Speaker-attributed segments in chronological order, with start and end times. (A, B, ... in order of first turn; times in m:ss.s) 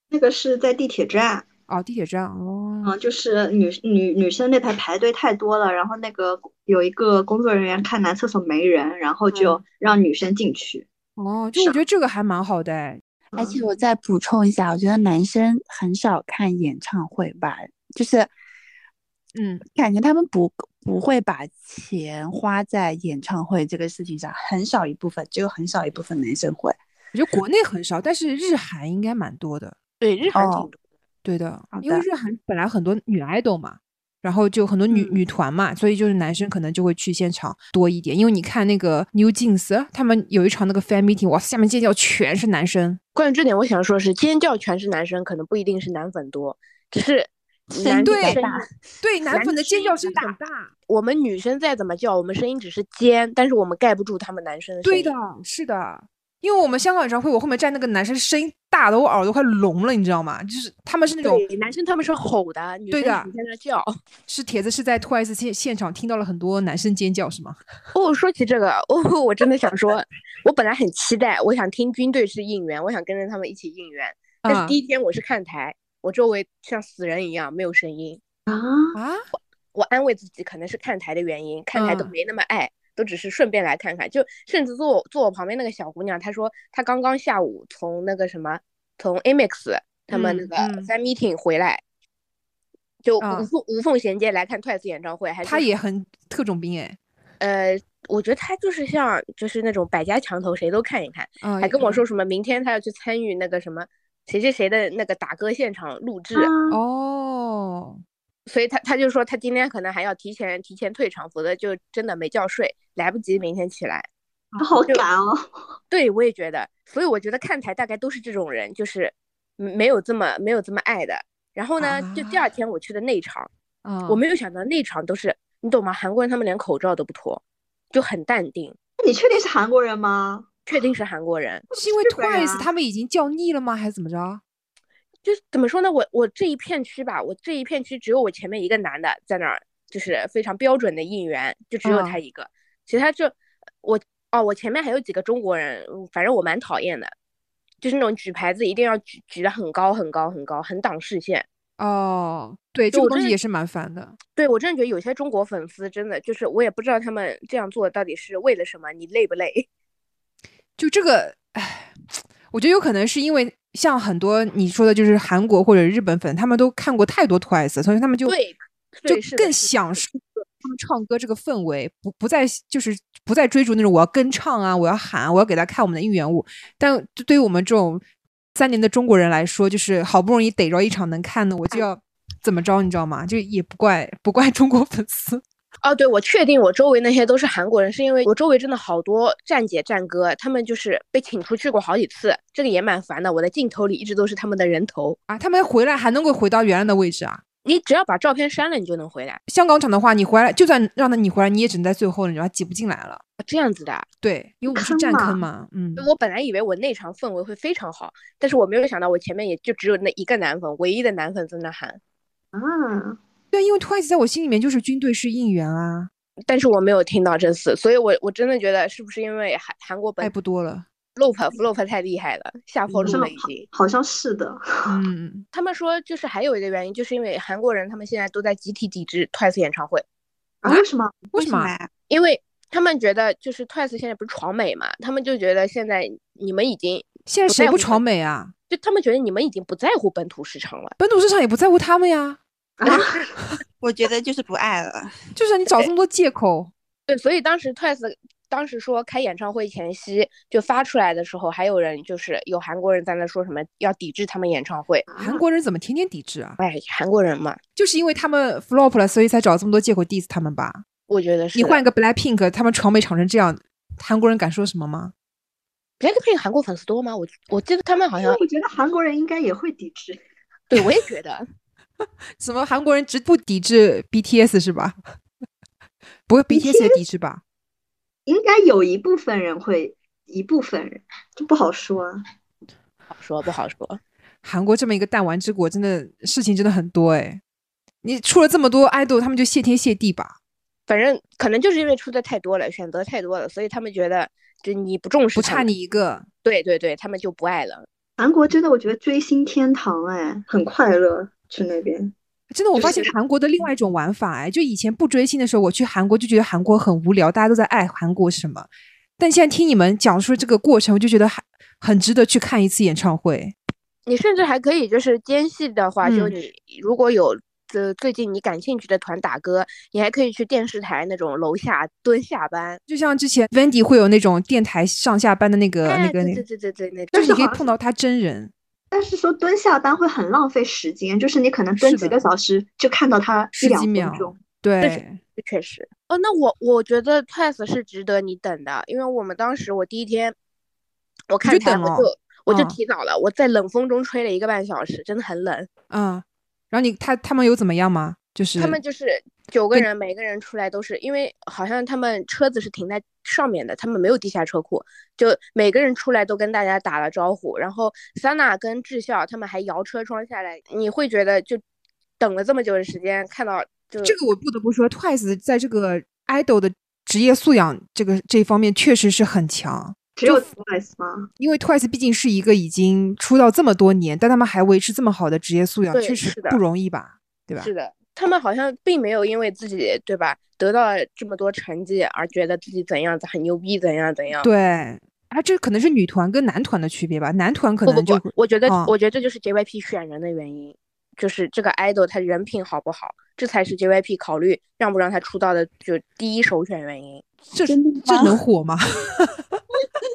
0:00.1-0:01.5 A
0:01.7-0:02.9 B
0:02.8-0:10.9 A
0:11.2-0:13.0 B
0:13.3-0:13.6 A
0:13.4-0:18.3 C
0:19.4-0:19.6 B
0:19.7-0:26.8 C
0:27.1-0:29.8 B
0:30.0-0:30.8 D
0:30.3-0:30.7 C
0:31.2-0:43.0 B
0:31.7-0:32.0 C
0:43.2-0:48.6 D
0:48.0-0:48.4 B
0:49.0-0:50.7 B
0:49.3-0:50.4 D
0:50.9-0:55.2 D
0:54.8-1:01.4 B
1:01.2-1:04.0 D
1:02.9-1:03.3 B
1:04.3-1:07.6 B
1:07.9-1:18.2 D
1:14.4-1:14.8 B
1:18.5-1:19.0 A
1:19.0-1:19.2 B
1:19.7-1:31.8 D
1:21.7-1:22.1 B
1:30.1-1:30.9 B
1:33.0-1:35.7 D
1:33.2-1:33.5 B
1:35.4-1:37.0 B
1:37.4-1:46.5 D
1:41.4-1:42.0 B
1:46.3-1:46.8 A
1:46.7-1:48.0 B
1:48.5-1:54.1 D
1:54.6-1:55.5 A
1:55.9-2:03.5 D
2:01.8-2:02.4 B
2:03.8-2:04.2 B
2:04.1-2:08.8 D
2:09.0-2:10.5 A
2:10.7-2:11.6 D
2:11.7-2:12.7 A
2:11.7-2:14.4 B
2:15.2-2:27.1 D
2:21.8-2:22.2 B
2:27.8-2:31.5 D
2:31.8-2:34.2 B
2:32.9-2:33.4 D
2:34.4-2:39.7 D
2:40.8-2:48.4 B
2:48.2-2:50.0 D
2:49.1-2:58.0 B
2:58.6-3:05.4 B
3:05.8-3:15.2 D
3:15.3-3:17.4 B
3:17.6-3:19.4 D
3:19.5-3:23.2 B
3:23.4-3:24.1 D
3:24.2-3:26.1 B
3:24.7-3:25.4 A
3:26.0-3:32.0 D
3:32.5-3:33.2 A
3:33.5-3:36.1 B
3:36.5-3:40.3 D
3:40.2-3:40.9 B
3:41.2-3:43.7 D
3:43.0-3:45.0 A
3:44.9-3:45.5 B
3:45.5-3:50.0 D
3:50.6-3:51.2 A
3:50.6-3:51.7 B
3:51.4-3:51.9 C
3:52.1-3:58.0 D
3:57.3-3:58.5 B
3:58.7-4:01.0 D
4:01.0-4:02.4 B
4:02.8-4:03.2 A
4:02.9-4:03.3 D
4:03.8-4:05.2 C
4:05.4-4:06.7 B
4:07.1-4:15.1 D
4:15.1-4:15.4 A
4:15.2-4:16.6 B
4:16.6-4:17.6 D
4:17.8-4:20.8 B
4:21.1-4:21.8 D
4:21.5-4:25.1 B
4:26.0-4:28.4 D
4:28.2-4:30.2 A
4:30.7-4:31.4 D
4:32.4-4:35.0 B
4:36.3-4:37.4 B
4:36.5-4:37.0 A
4:38.3-4:42.2 A
4:43.1-4:44.0 D
4:44.4-4:47.4 B
4:48.0-4:50.4 B
4:50.9-4:55.7 D
4:55.3-4:56.3 B
4:56.4-4:57.9 D
4:58.2-5:02.1 A
5:02.5-5:13.6 B
5:02.8-5:03.1 A
5:14.1-5:22.8 D
5:16.0-5:16.3 B
5:22.9-5:26.4 B
5:25.8-5:27.4 D
5:27.1-5:27.7 A
5:27.1-5:28.5 B
5:28.9-5:34.4 A
5:31.8-5:32.2 B
5:33.6-5:35.2 B
5:34.8-5:40.4 D
5:41.3-5:45.7 D
5:41.4-5:42.8 B
5:45.9-5:48.8 B
5:48.6-6:01.6 D
6:02.2-6:04.2 D
6:04.0-6:10.5 B
6:10.2-6:11.3 A
6:11.4-6:17.7 B
6:15.9-6:16.6 D
6:17.6-6:24.5 D
6:24.4-6:28.9 B
6:27.9-6:37.2 D
6:37.5-6:39.6 B
6:37.7-6:38.4 C